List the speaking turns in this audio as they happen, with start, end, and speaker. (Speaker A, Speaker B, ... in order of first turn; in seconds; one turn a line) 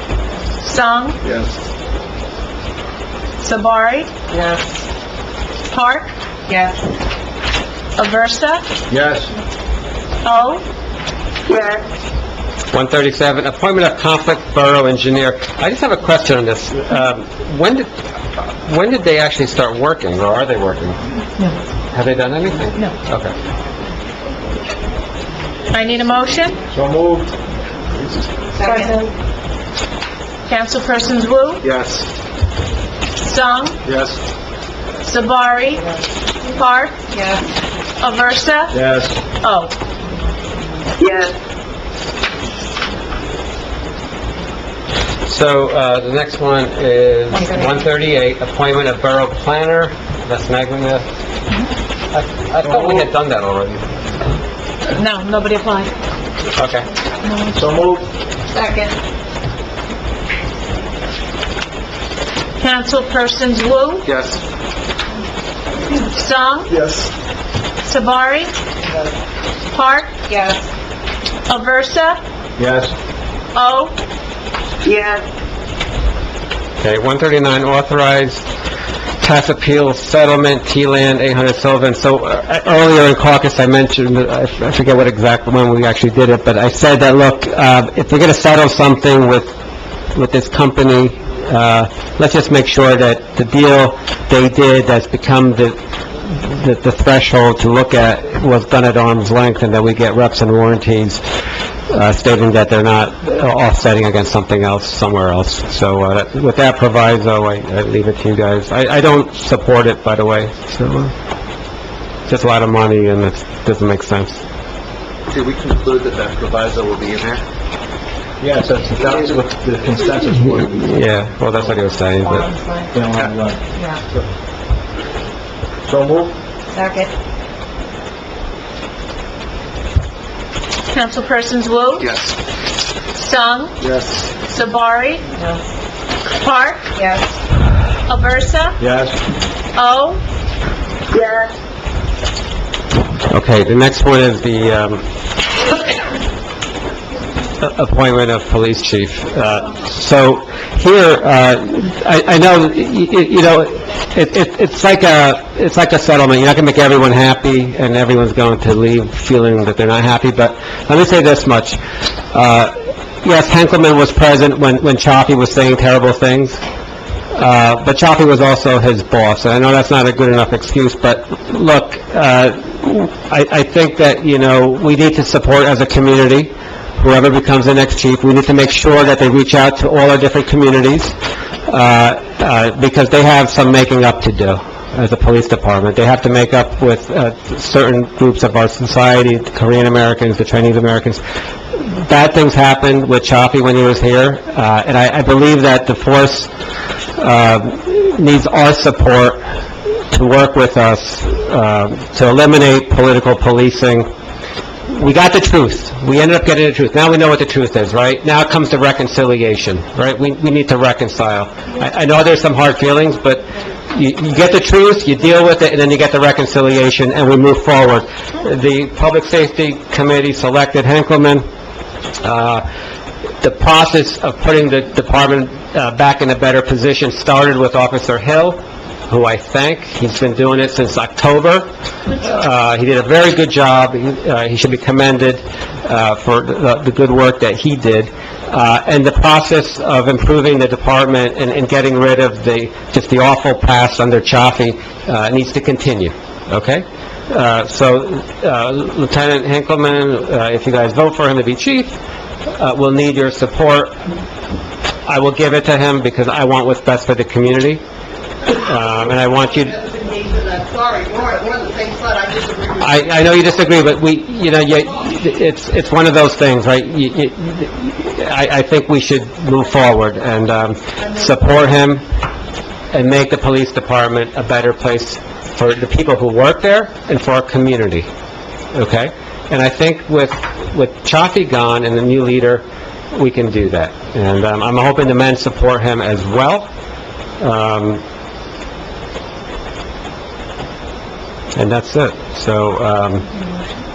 Speaker A: 0.6-1.2
Speaker B: 1.2-1.5
Speaker A: 3.4-4.2
Speaker C: 4.3-4.8
Speaker A: 5.7-6.1
Speaker C: 6.5-6.8
Speaker A: 8.0-8.7
Speaker B: 8.9-9.3
Speaker A: 10.2-10.7
Speaker C: 11.5-11.8
Speaker D: 12.7-17.9
Speaker D: 18.6-21.0
Speaker D: 21.9-23.3
Speaker A: 25.7-26.6
Speaker B: 26.7-27.3
Speaker C: 28.5-29.1
Speaker A: 28.7-29.1
Speaker A: 30.4-31.6
Speaker E: 31.6-32.0
Speaker A: 33.2-33.8
Speaker A: 35.0-35.9
Speaker A: 36.5-37.1
Speaker C: 37.1-37.5
Speaker A: 38.0-38.8
Speaker B: 38.7-39.2
Speaker A: 39.4-39.8
Speaker C: 41.0-41.3
Speaker D: 45.2-51.1
Speaker C: 47.3-47.6
Speaker D: 52.1-53.9
Speaker B: 52.6-53.1
Speaker A: 54.9-55.9
Speaker D: 56.6-56.9
Speaker B: 57.5-58.1
Speaker C: 58.5-59.0
Speaker A: 62.6-64.1
Speaker D: 64.0-64.4
Speaker A: 66.0-66.8
Speaker B: 66.7-67.1
Speaker A: 67.8-68.5
Speaker A: 69.7-70.2
Speaker C: 70.3-70.7
Speaker A: 71.5-72.2
Speaker B: 72.6-72.9
Speaker A: 73.5-74.0
Speaker C: 74.8-75.2
Speaker D: 76.8-78.5
Speaker D: 79.2-89.5
Speaker D: 90.1-101.2
Speaker D: 101.9-111.1
Speaker D: 112.3-114.4
Speaker E: 115.3-117.4
Speaker B: 118.4-120.9
Speaker D: 120.3-122.5
Speaker C: 122.2-122.9
Speaker B: 122.9-123.6
Speaker C: 123.8-124.0
Speaker B: 125.9-126.3
Speaker C: 126.7-127.1
Speaker A: 130.9-132.1
Speaker E: 132.0-132.3
Speaker A: 133.1-133.8
Speaker B: 133.8-134.2
Speaker A: 134.4-135.2
Speaker C: 135.3-135.7
Speaker A: 136.3-136.9
Speaker C: 137.0-137.3
Speaker A: 138.1-138.8
Speaker B: 138.8-139.2
Speaker A: 139.7-140.2
Speaker C: 141.1-141.5
Speaker D: 143.3-145.1
Speaker D: 147.6-161.8
Speaker D: 162.3-162.7
Speaker D: 163.2-166.6
Speaker D: 167.3-181.2
Speaker D: 181.7-191.2
Speaker D: 191.7-196.5
Speaker D: 197.2-199.4
Speaker D: 200.1-204.1
Speaker D: 204.9-221.4
Speaker D: 222.2-222.6
Speaker D: 223.4-252.0
Speaker D: 252.6-253.9
Speaker D: 255.1-257.8
Speaker D: 258.5-259.7
Speaker F: 259.1-263.0
Speaker D: 262.8-272.0
Speaker D: 272.9-278.1
Speaker D: 278.7-286.7
Speaker D: 287.4-288.0
Speaker D: 291.6-293.3